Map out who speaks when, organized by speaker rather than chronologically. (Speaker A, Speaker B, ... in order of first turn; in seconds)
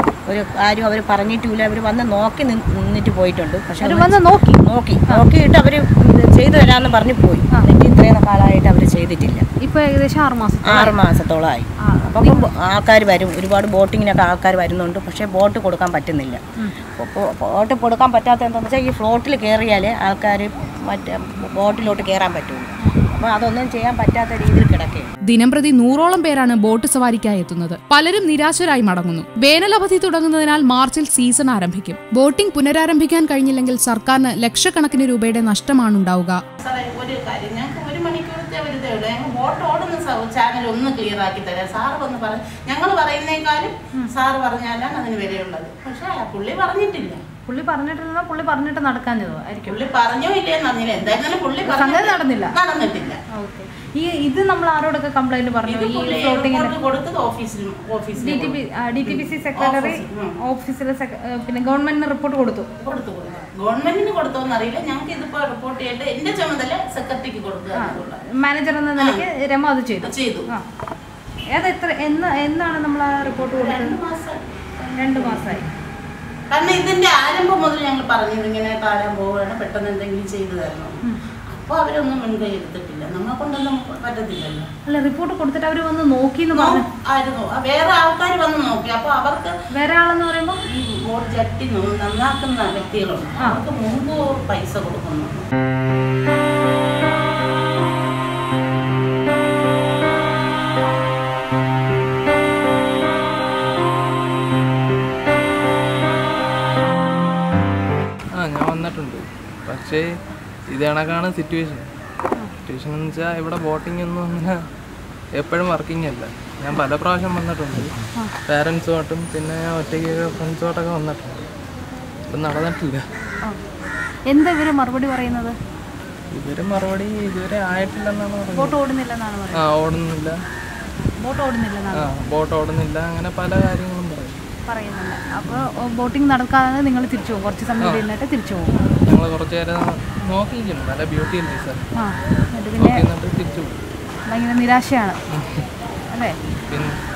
Speaker A: 0.3-9.4, 10.6-16.4, 16.9-25.1
Speaker B: 3.8-5.2, 9.6-10.9, 11.8-12.5, 47.5-49.9, 51.6-52.6, 53.3-56.7, 58.1-62.7, 67.7-70.6, 71.5-74.0, 74.9-75.6, 84.8-86.8, 89.8-90.6, 124.3-125.5, 128.5-129.8, 131.2-132.1, 134.7-138.8, 141.9-143.1, 144.3-145.2
Speaker C: 25.2-36.4
Speaker D: 36.6-47.2, 49.6-53.2, 55.6-60.3, 62.8-68.2, 69.0-69.2, 70.0-70.5, 73.2-75.7, 76.5-84.7, 86.5-89.5, 90.7-95.4
Speaker E: 108.3-110.0, 110.7-111.8, 112.7-114.5, 115.4-117.9, 118.5-121.4, 122.3-123.0, 126.3-128.8, 129.5-130.3, 131.9-134.4, 137.8-138.1, 139.1-141.8, 142.8-143.8, 145.3-145.7, 146.7-147.0